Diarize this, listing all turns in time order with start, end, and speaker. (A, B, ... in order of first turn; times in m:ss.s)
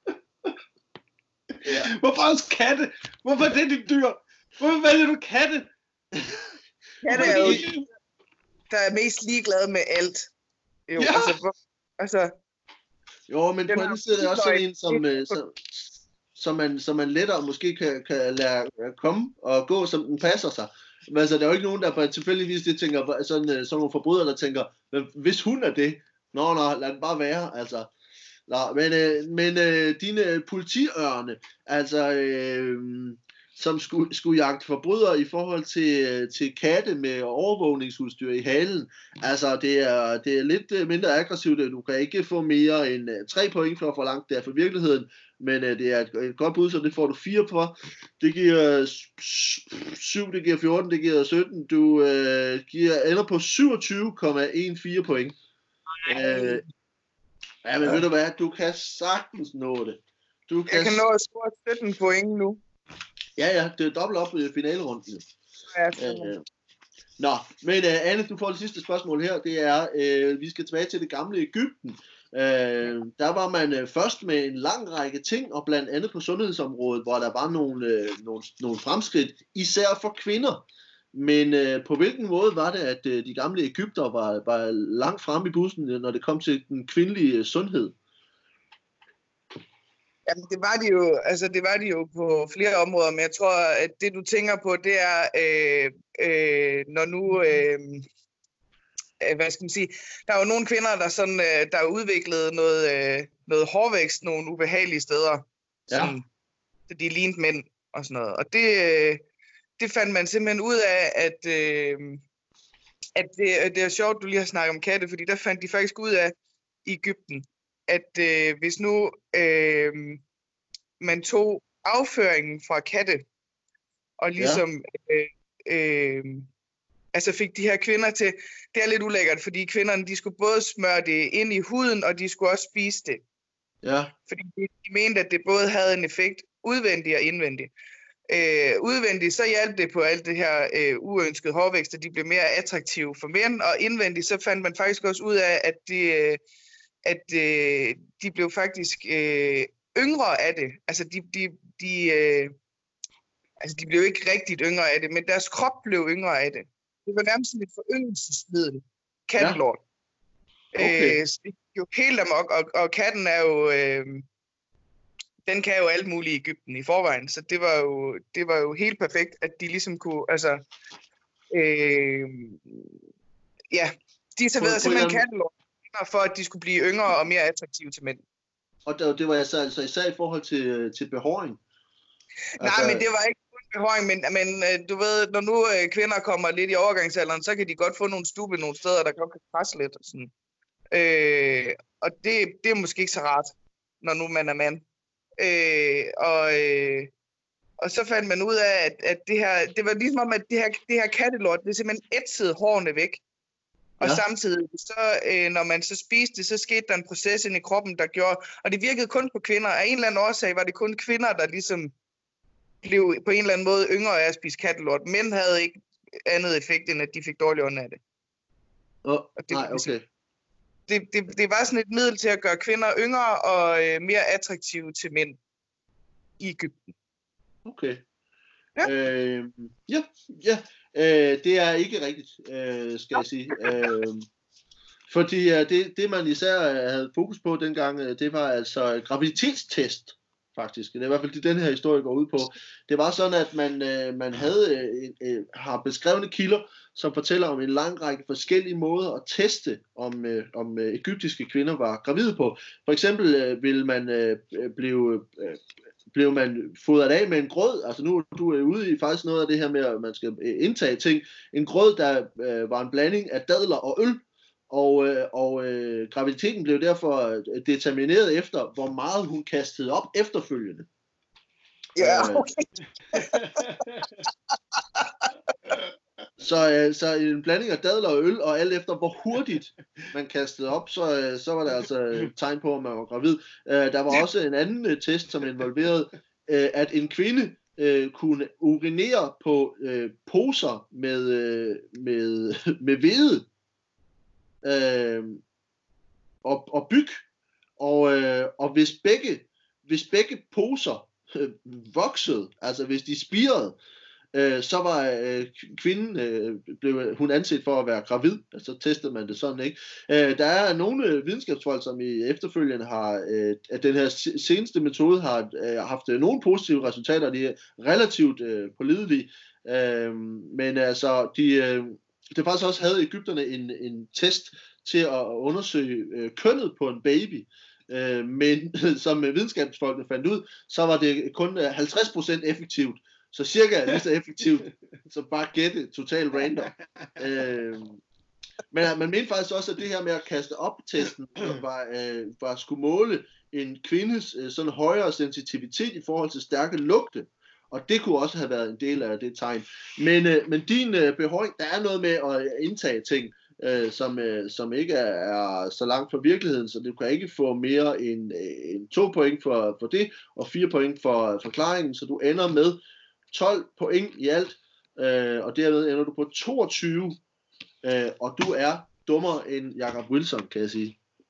0:01.6-0:05.7 A
0:06.2-0:06.5 B
0:07.0-0:07.6 C
0:07.1-0:07.7 B
0:07.1-0:07.8 A
0:08.7-0:10.3 C
0:10.9-0:12.3 C
0:11.0-0:11.3 A
0:13.3-0:27.9 B
0:13.7-0:15.4 C
0:28.5-0:55.3 B
0:56.0-0:56.6 C
0:56.1-0:56.6 B
0:57.6-1:01.0 B
1:00.7-1:02.6 C
1:03.4-1:05.2 B
1:05.7-1:06.3 C
1:06.0-1:06.4 B
1:07.2-1:28.0 B
1:30.3-1:38.0 C
1:39.2-1:46.2 C
1:45.9-1:46.2 B
1:46.9-1:49.2 C
1:49.8-1:52.2 C
1:53.2-1:56.3 C
1:56.9-2:00.2 C
2:01.0-2:03.2 C
2:04.2-2:06.5 C
2:04.4-2:04.6 B
2:07.1-2:13.2 C
2:13.8-2:14.1 B
2:14.3-2:17.7 C
2:18.3-2:26.4 C
2:27.0-2:32.5 C
2:33.6-2:39.8 C
2:40.8-2:44.3 C
2:40.8-2:41.2 B
2:45.5-2:50.7 C
2:51.5-2:53.0 C
2:53.7-2:58.2 C
2:54.6-2:55.2 B
2:58.9-3:01.6 B
3:02.6-3:10.3 C
3:02.6-3:03.0 B
3:10.9-3:14.8 C
3:15.4-3:17.1 C
3:17.8-3:23.2 C
3:24.0-3:31.9 C
3:32.8-3:38.0 C
3:39.0-3:40.0 B
3:39.4-3:39.9 C
3:40.9-3:45.4 C
3:46.4-3:46.9 C
3:47.6-3:48.0 B
3:48.8-3:54.3 B
3:55.1-4:30.9 B
4:32.0-4:33.4 C
4:32.0-4:32.5 B
4:33.1-4:34.2 A
4:35.0-4:35.3 C
4:36.4-4:53.5 B
4:54.6-4:55.4 B
4:56.4-4:57.2 B
4:57.8-5:03.8 B
5:04.3-5:38.0 B
5:38.7-6:02.8 B
6:03.3-6:07.2 B
6:07.8-6:11.0 B